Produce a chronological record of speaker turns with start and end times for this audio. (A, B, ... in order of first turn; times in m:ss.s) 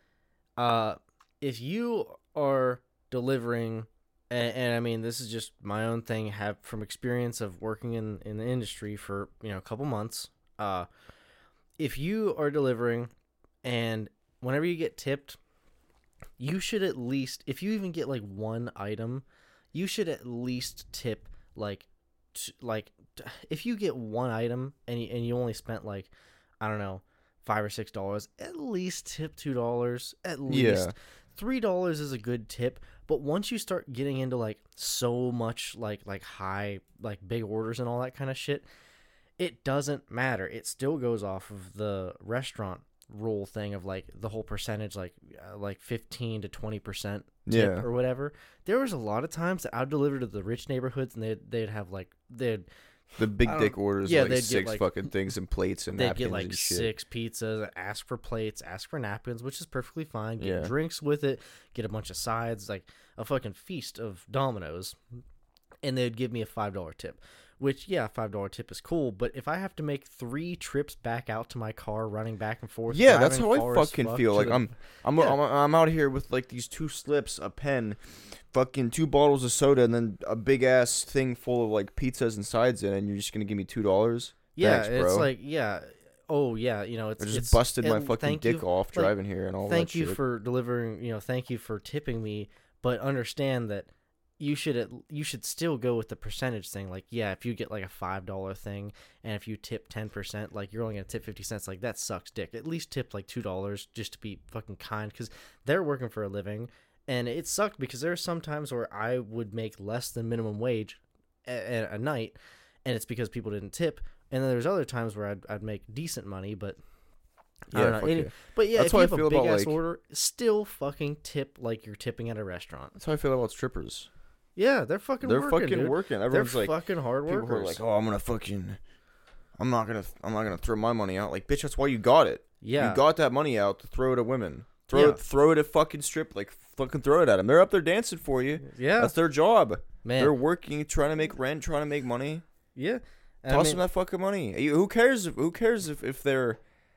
0:00.6-0:10.9 A
0:11.8-0:13.1 A
0:13.6-0:15.4 A
0:16.4-0:38.6 A
0:30.5-0:30.9 B
0:39.4-0:52.7 A
0:47.5-0:47.9 B
0:53.2-0:54.9 A
0:53.2-0:56.9 B
0:55.9-1:05.0 A
1:00.4-1:00.7 B
1:05.8-1:15.4 A
1:12.9-1:25.3 B
1:24.6-1:29.1 A
1:27.2-1:30.2 B
1:29.6-1:56.8 A
1:57.7-2:03.0 A
1:57.7-1:59.8 B
2:03.0-2:04.1 B
2:04.6-2:07.8 A
2:05.2-2:06.7 B
2:07.3-2:08.8 B
2:09.6-2:22.4 B
2:12.6-2:13.0 A
2:14.9-2:15.2 A
2:18.6-2:19.2 A
2:20.0-2:20.4 A
2:22.8-2:23.8 A
2:23.5-2:26.6 B